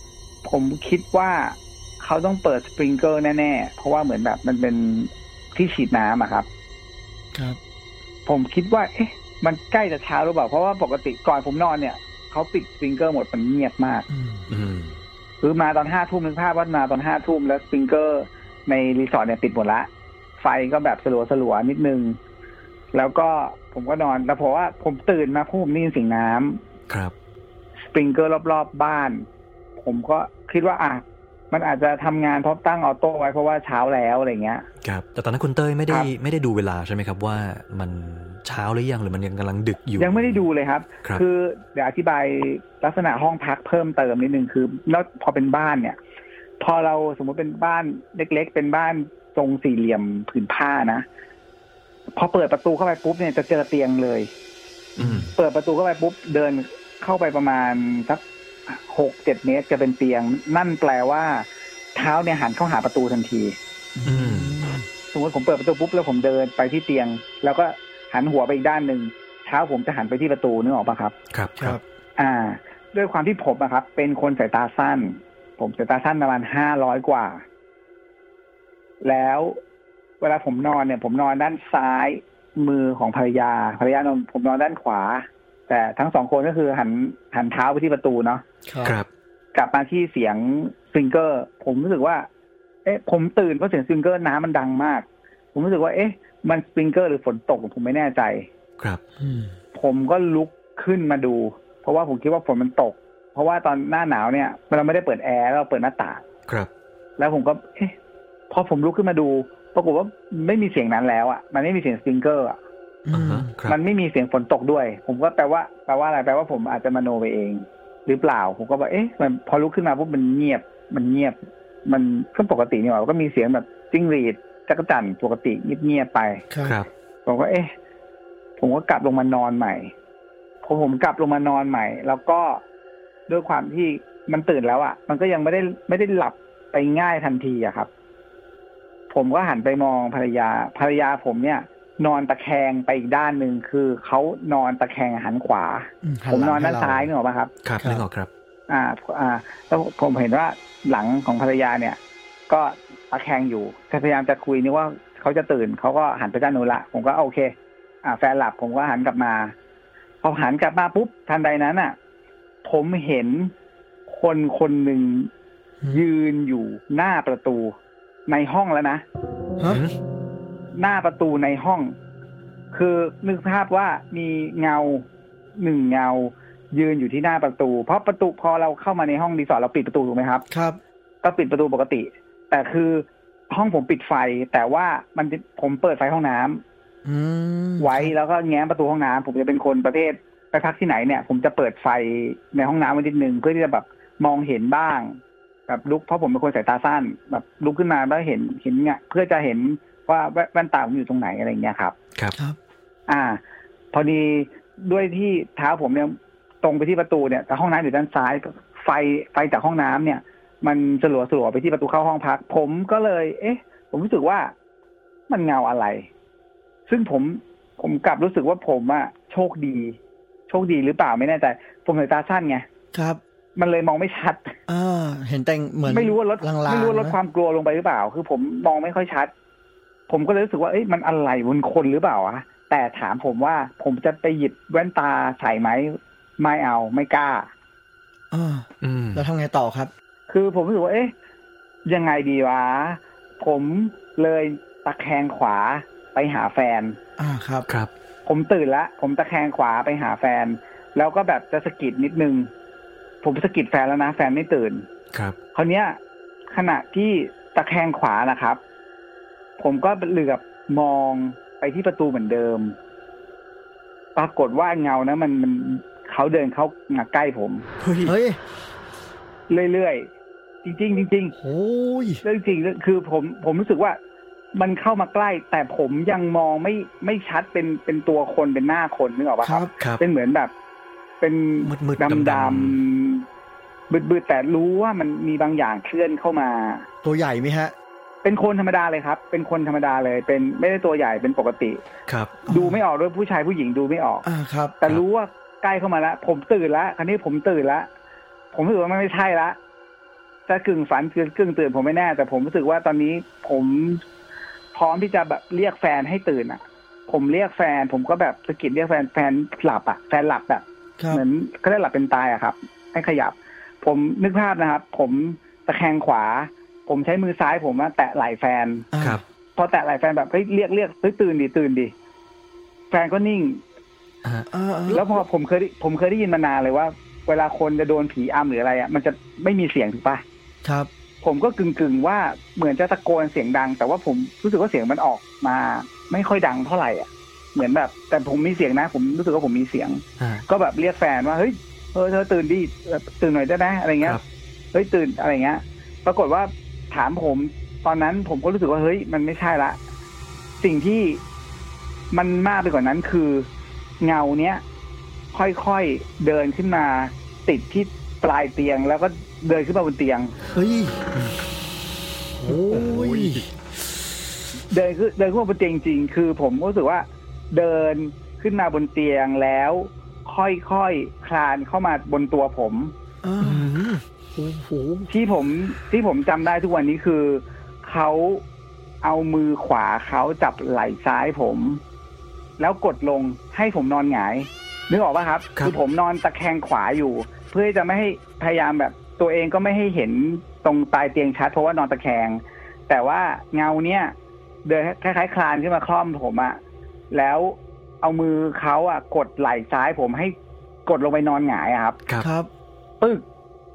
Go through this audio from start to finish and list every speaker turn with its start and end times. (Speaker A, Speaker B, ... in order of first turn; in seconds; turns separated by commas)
Speaker A: 0.4-6.5, Speaker B: 7.3-7.6, Speaker A: 8.2-14.1, Speaker B: 14.1-14.5, Speaker C: 14.5-15.0, Speaker A: 15.4-22.2, Speaker A: 22.9-26.6, Speaker C: 26.9-27.1, Speaker A: 27.9-29.2, Speaker A: 29.8-34.6, Speaker C: 34.8-40.4, Speaker A: 40.0-46.0, Speaker A: 46.6-51.0, Speaker A: 52.1-54.3, Speaker B: 55.0-55.3, Speaker C: 55.0-55.3, Speaker A: 55.3-63.5, Speaker B: 64.0-64.8, Speaker C: 64.0-64.6, Speaker A: 65.1-71.1, Speaker C: 71.3-71.8, Speaker A: 72.2-77.4, Speaker A: 79.0-79.6, Speaker A: 80.2-88.4, Speaker B: 88.7-89.0, Speaker A: 89.5-92.3, Speaker A: 92.8-98.5, Speaker B: 99.2-99.5, Speaker A: 99.7-106.2, Speaker A: 107.2-107.9, Speaker A: 108.5-112.6, Speaker B: 113.1-113.5, Speaker C: 113.1-113.8, Speaker A: 113.7-126.4, Speaker B: 126.5-126.8, Speaker A: 127.2-127.7, Speaker A: 128.6-129.9, Speaker A: 130.6-132.6, Speaker A: 133.3-137.9, Speaker A: 139.1-147.5, Speaker B: 146.0-147.1, Speaker C: 147.6-148.3, Speaker A: 148.7-152.0, Speaker A: 152.5-159.5, Speaker A: 160.2-161.9, Speaker A: 162.6-163.5, Speaker A: 164.1-165.3, Speaker A: 165.9-167.7, Speaker A: 168.3-169.0, Speaker C: 169.7-169.9, Speaker A: 170.7-171.9, Speaker A: 172.7-180.4, Speaker B: 180.5-180.8, Speaker A: 181.2-186.6, Speaker B: 187.0-188.1, Speaker A: 187.8-195.2, Speaker A: 195.7-201.9, Speaker A: 203.1-203.4, Speaker A: 203.9-214.5, Speaker A: 215.3-216.1, Speaker A: 216.9-219.9, Speaker A: 220.5-222.7, Speaker B: 222.9-223.2, Speaker A: 223.6-224.5, Speaker B: 224.7-227.2, Speaker A: 225.8-229.3, Speaker A: 230.1-237.5, Speaker B: 238.3-239.9, Speaker C: 238.8-239.2, Speaker A: 240.3-241.1, Speaker A: 241.8-247.0, Speaker B: 247.2-247.7, Speaker A: 248.2-252.5, Speaker A: 253.2-254.9, Speaker A: 255.5-256.0, Speaker A: 256.5-258.6, Speaker A: 259.6-262.7, Speaker A: 264.1-267.6, Speaker C: 267.8-268.1, Speaker B: 268.0-268.4, Speaker A: 269.5-270.1, Speaker A: 270.6-271.3, Speaker B: 271.4-272.2, Speaker A: 272.2-274.0, Speaker A: 274.5-280.5, Speaker B: 279.4-279.7, Speaker C: 279.8-280.0, Speaker A: 281.2-283.2, Speaker C: 281.6-282.8, Speaker A: 283.9-286.9, Speaker B: 287.0-287.7, Speaker A: 288.2-291.8, Speaker C: 292.1-292.4, Speaker B: 292.4-292.8, Speaker A: 292.4-294.2, Speaker B: 294.2-294.8, Speaker A: 294.8-297.9, Speaker A: 298.5-299.6, Speaker A: 300.5-304.0, Speaker A: 304.7-318.9, Speaker B: 318.9-319.2, Speaker A: 319.6-321.9, Speaker A: 322.9-323.6, Speaker C: 324.2-324.5, Speaker B: 324.5-325.2, Speaker A: 324.9-330.2, Speaker B: 330.6-330.9, Speaker A: 331.2-344.2, Speaker C: 340.2-340.4, Speaker A: 344.7-349.8, Speaker A: 350.6-351.2, Speaker A: 352.1-353.5, Speaker A: 354.0-354.6, Speaker A: 355.3-360.3, Speaker B: 360.5-361.0, Speaker B: 362.4-363.4, Speaker C: 362.5-363.5, Speaker A: 364.7-372.9, Speaker B: 373.2-373.7, Speaker C: 373.4-374.0, Speaker B: 374.4-375.1, Speaker A: 375.1-378.4, Speaker A: 379.0-381.8, Speaker A: 382.6-394.1, Speaker A: 394.6-396.6, Speaker A: 397.1-400.3, Speaker A: 400.9-402.0, Speaker B: 402.2-402.5